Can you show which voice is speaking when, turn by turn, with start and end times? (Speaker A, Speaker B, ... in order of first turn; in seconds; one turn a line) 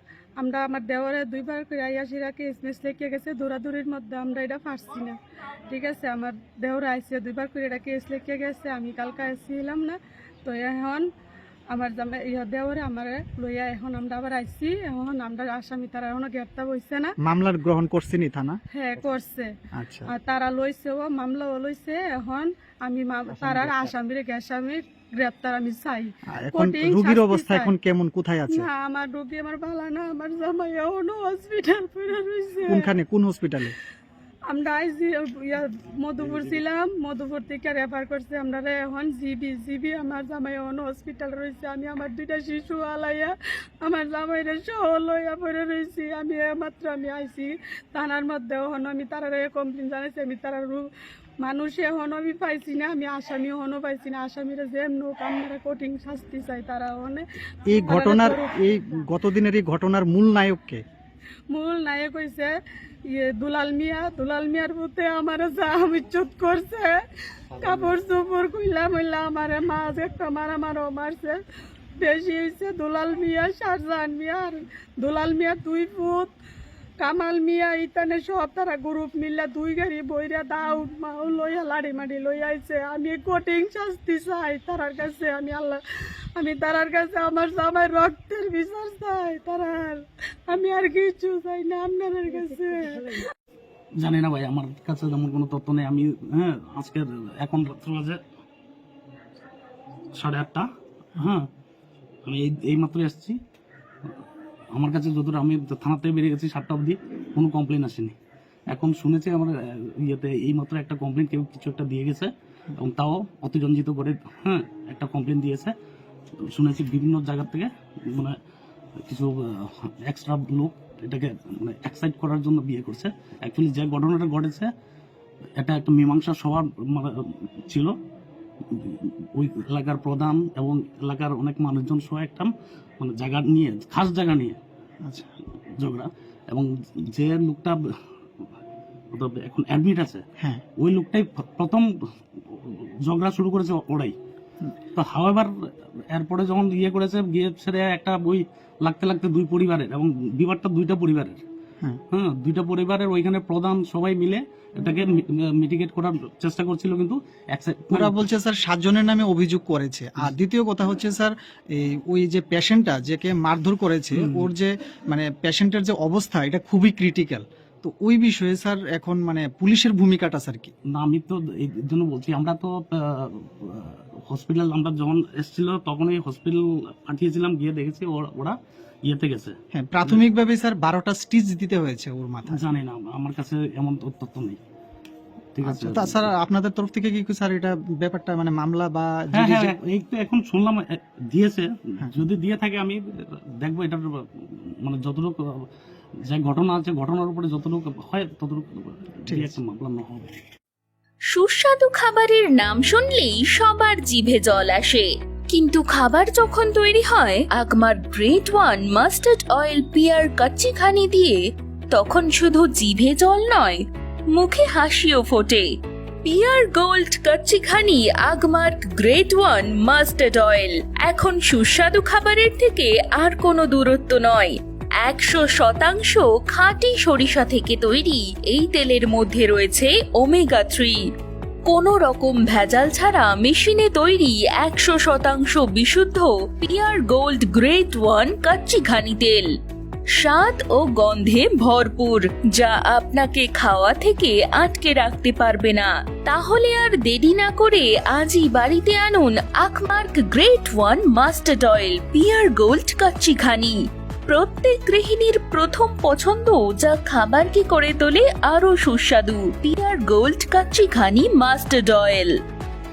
Speaker A: 0.4-5.2
Speaker A: 5.7-11.1
Speaker A: 11.7-17.1
Speaker B: 17.2-18.6
Speaker A: 18.7-19.5
Speaker B: 19.7-20.1
Speaker A: 20.1-27.7
Speaker B: 23.4-23.8
Speaker B: 26.3-28.7
Speaker A: 28.5-32.9
Speaker B: 32.7-33.7
Speaker A: 34.5-50.9
Speaker A: 51.4-57.2
Speaker B: 57.7-60.8
Speaker A: 57.9-58.8
Speaker A: 61.5-62.5
Speaker A: 63.0-67.0
Speaker A: 67.6-71.4
Speaker A: 72.0-76.3
Speaker A: 77.0-85.8
Speaker A: 86.3-93.2
Speaker C: 94.0-98.2
Speaker C: 100.1-101.5
Speaker C: 102.2-103.4
Speaker C: 104.7-108.1
Speaker C: 108.7-115.7
Speaker C: 116.5-118.3
Speaker C: 119.0-124.7
Speaker C: 125.6-127.1
Speaker C: 127.7-127.9
Speaker C: 128.7-134.6
Speaker B: 135.0-135.3
Speaker C: 135.8-137.8
Speaker C: 139.1-140.2
Speaker C: 140.8-141.8
Speaker C: 142.5-144.1
Speaker C: 144.9-145.5
Speaker C: 146.1-151.4
Speaker C: 152.1-158.2
Speaker B: 157.9-170.7
Speaker C: 164.2-164.5
Speaker C: 170.9-180.2
Speaker B: 179.7-182.6
Speaker C: 182.5-184.6
Speaker C: 185.5-186.3
Speaker B: 185.6-189.8
Speaker C: 189.3-195.6
Speaker C: 196.3-200.4
Speaker B: 199.3-199.5
Speaker D: 201.3-211.4
Speaker D: 211.9-213.8
Speaker D: 214.3-215.7
Speaker D: 216.2-231.0
Speaker D: 231.7-239.5
Speaker D: 240.1-253.7
Speaker D: 254.3-262.3